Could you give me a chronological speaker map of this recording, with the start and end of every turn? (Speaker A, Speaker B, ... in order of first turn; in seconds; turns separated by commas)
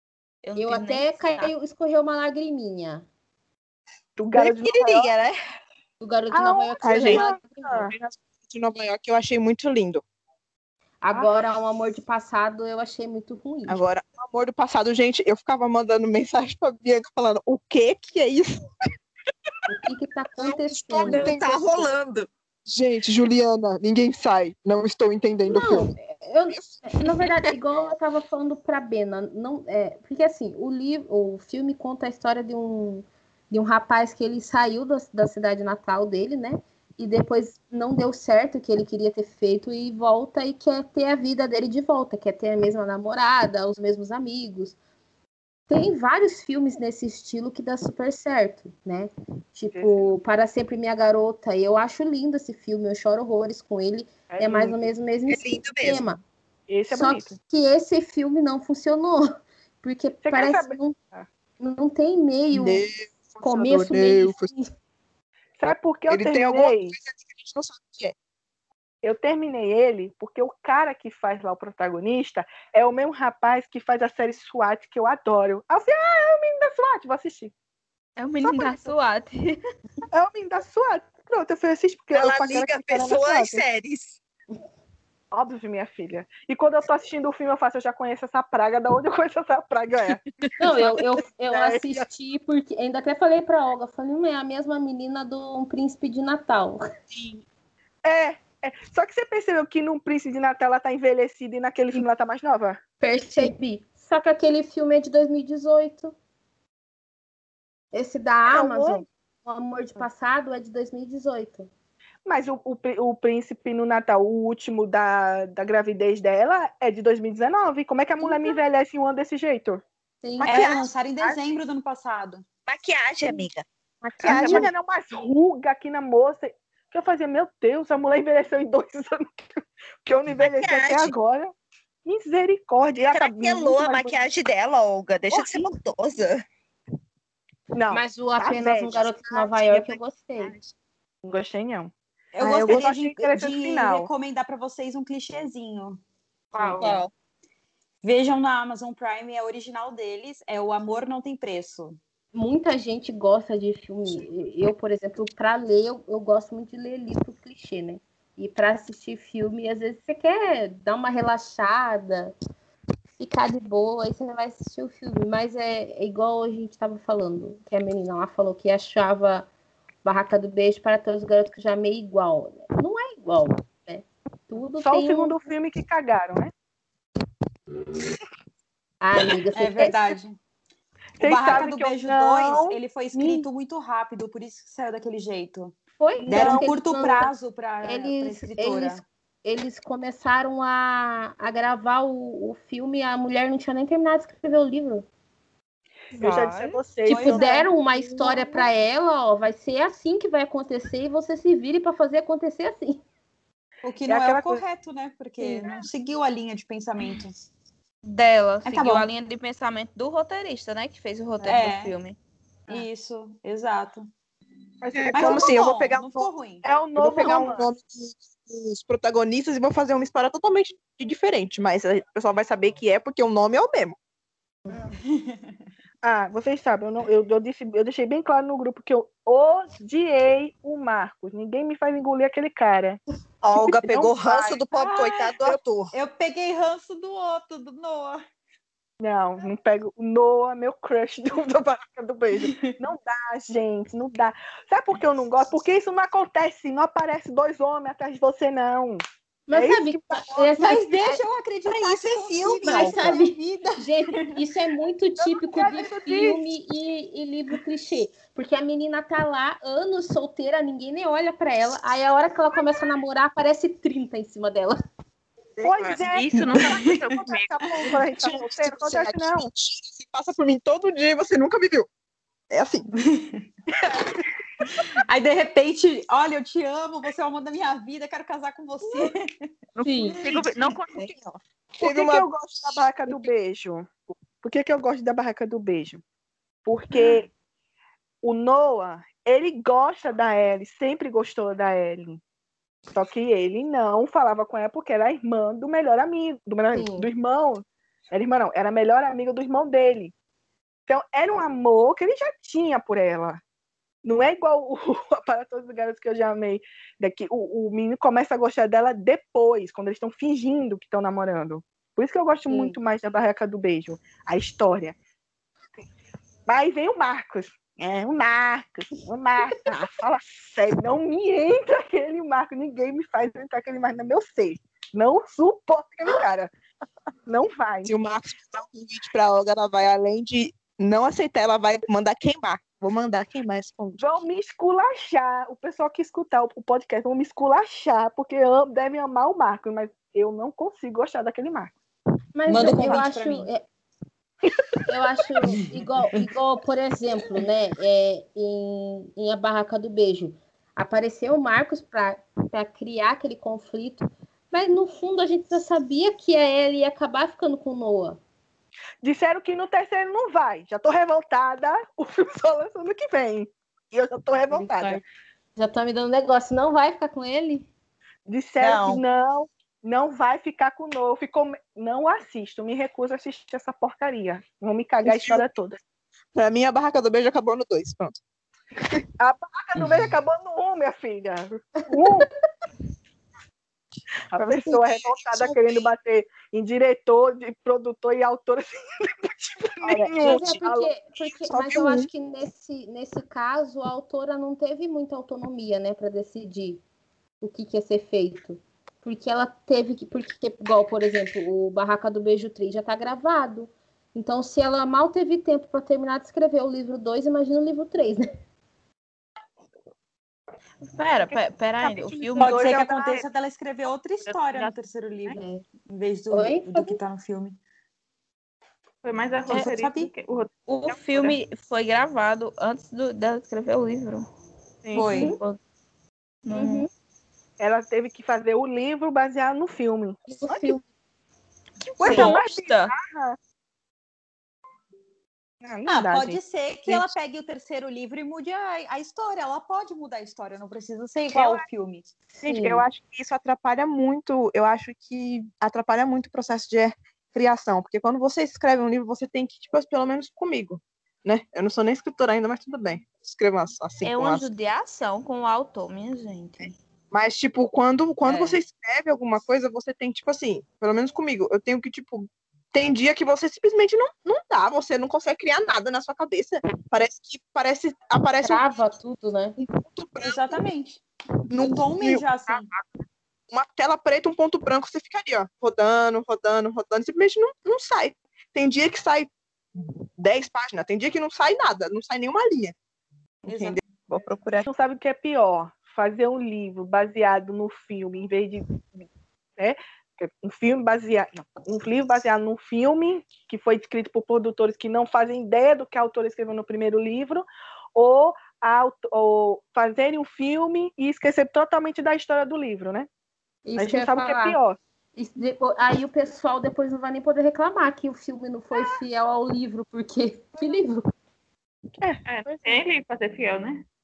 Speaker A: 0.4-1.5, Speaker B: 0.6-3.0, Speaker C: 4.2-5.1, Speaker D: 4.3-5.3, Speaker B: 6.0-7.9, Speaker C: 6.3-8.0, Speaker E: 6.8-7.3, Speaker E: 8.2-10.0, Speaker B: 11.0-13.8, Speaker E: 13.7-18.6, Speaker B: 19.7-21.8, Speaker E: 20.4-21.6, Speaker D: 21.0-22.3, Speaker E: 22.6-25.9, Speaker B: 25.4-44.7, Speaker E: 26.6-27.2, Speaker B: 45.7-56.2, Speaker C: 49.7-50.1, Speaker C: 54.3-54.9, Speaker D: 55.3-56.1, Speaker C: 56.7-57.4, Speaker B: 56.9-59.3, Speaker B: 59.8-61.0, Speaker C: 60.2-61.3, Speaker B: 61.6-62.9, Speaker E: 62.5-64.5, Speaker B: 63.4-64.7, Speaker C: 65.6-67.0, Speaker E: 66.1-68.1, Speaker C: 69.0-77.5, Speaker A: 78.2-79.6, Speaker C: 78.4-78.9, Speaker C: 80.1-83.6, Speaker D: 82.1-84.2, Speaker C: 85.3-90.2, Speaker B: 90.6-96.8, Speaker C: 91.5-92.0, Speaker C: 98.0-102.8, Speaker B: 103.0-106.1, Speaker B: 107.9-111.7, Speaker C: 108.5-109.0, Speaker C: 112.2-119.8, Speaker B: 118.2-118.5, Speaker B: 120.2-120.6, Speaker D: 120.4-120.9, Speaker F: 120.4-122.4, Speaker D: 122.7-123.7, Speaker B: 124.0-124.7, Speaker D: 124.2-124.7, Speaker C: 124.2-131.5, Speaker D: 130.4-131.2, Speaker C: 132.0-134.1, Speaker D: 133.1-136.4, Speaker C: 135.3-135.7, Speaker C: 137.7-139.9, Speaker B: 137.9-140.6, Speaker C: 141.2-144.1, Speaker F: 142.3-146.0, Speaker G: 146.5-147.0, Speaker F: 146.6-146.9, Speaker D: 146.8-147.1, Speaker F: 148.0-152.0, Speaker B: 152.3-162.3, Speaker B: 163.2-169.5, Speaker B: 170.0-175.4, Speaker C: 174.8-176.5, Speaker B: 179.0-180.0, Speaker F: 179.5-180.4, Speaker C: 181.2-182.8, Speaker F: 181.2-185.8, Speaker B: 183.1-183.4, Speaker B: 186.0-187.3, Speaker C: 186.2-186.7, Speaker F: 186.3-189.0, Speaker B: 187.8-195.1, Speaker C: 196.1-198.7, Speaker A: 196.1-196.8, Speaker F: 197.1-197.8, Speaker B: 197.1-203.0, Speaker F: 203.8-207.3, Speaker C: 204.1-204.6, Speaker B: 205.4-205.7, Speaker A: 208.0-212.2, Speaker F: 208.6-209.1, Speaker F: 211.4-212.0, Speaker F: 212.7-214.1, Speaker C: 214.8-215.5, Speaker E: 214.9-216.3, Speaker F: 215.1-216.6, Speaker C: 216.6-217.7, Speaker E: 216.9-223.9, Speaker F: 225.1-225.5, Speaker C: 226.0-233.0, Speaker D: 233.4-235.9, Speaker C: 233.5-235.6, Speaker F: 235.9-238.2, Speaker C: 239.0-249.0, Speaker F: 242.3-242.7, Speaker B: 249.5-251.2, Speaker C: 249.5-250.4, Speaker F: 250.6-254.3, Speaker D: 251.6-253.2, Speaker B: 252.6-264.8, Speaker C: 255.2-256.4, Speaker C: 265.6-269.5, Speaker G: 265.8-267.7, Speaker F: 266.3-267.0, Speaker E: 268.1-271.9, Speaker E: 272.5-272.9, Speaker F: 273.0-273.4, Speaker F: 274.7-279.5, Speaker B: 279.8-280.2, Speaker G: 280.2-281.0, Speaker F: 280.2-280.6, Speaker E: 281.8-282.3, Speaker C: 281.8-286.0, Speaker C: 286.6-287.3, Speaker C: 288.2-292.2, Speaker C: 292.9-300.1, Speaker B: 296.7-297.1, Speaker C: 300.9-303.4, Speaker C: 304.0-314.9, Speaker B: 312.5-312.8, Speaker C: 316.5-326.5, Speaker C: 327.3-327.9, Speaker E: 327.8-334.0, Speaker C: 334.0-341.7, Speaker B: 342.3-343.6, Speaker F: 342.5-343.5, Speaker G: 342.6-343.0, Speaker B: 344.9-358.2, Speaker C: 359.0-365.0, Speaker B: 364.5-365.0, Speaker B: 365.6-367.7, Speaker C: 368.3-375.8, Speaker D: 368.6-369.0, Speaker E: 375.0-375.4, Speaker E: 376.3-378.2, Speaker C: 379.2-382.3, Speaker C: 384.3-390.9, Speaker E: 384.3-385.9, Speaker E: 389.8-390.6, Speaker B: 390.0-396.8, Speaker E: 391.2-392.1, Speaker B: 397.4-408.3, Speaker A: 410.9-412.7, Speaker C: 411.3-413.2, Speaker F: 412.4-417.6, Speaker G: 414.2-414.7, Speaker B: 415.3-415.6, Speaker B: 416.3-417.0, Speaker G: 419.0-421.3, Speaker F: 419.4-420.1, Speaker A: 420.7-424.3, Speaker C: 424.8-425.1, Speaker A: 424.9-425.6, Speaker F: 424.9-425.3, Speaker B: 425.1-425.4, Speaker A: 426.4-426.9, Speaker B: 426.5-426.9, Speaker C: 427.6-430.8, Speaker B: 430.3-430.8, Speaker C: 431.9-433.4, Speaker A: 432.0-432.9, Speaker C: 435.6-437.0, Speaker F: 435.9-442.1, Speaker C: 441.3-441.6, Speaker B: 442.3-442.9, Speaker E: 442.4-454.4, Speaker A: 454.0-456.8, Speaker E: 457.1-468.7, Speaker F: 458.2-458.6, Speaker B: 468.4-469.6, Speaker E: 469.6-470.6, Speaker F: 470.2-471.0, Speaker E: 471.5-472.2, Speaker F: 471.6-472.7, Speaker G: 472.5-472.8, Speaker E: 473.5-482.8, Speaker E: 483.4-484.7, Speaker F: 483.4-483.8, Speaker C: 484.6-489.1, Speaker C: 489.6-503.1, Speaker B: 503.6-504.6, Speaker C: 503.8-504.8, Speaker B: 505.1-511.1, Speaker C: 512.0-512.8, Speaker G: 512.2-513.8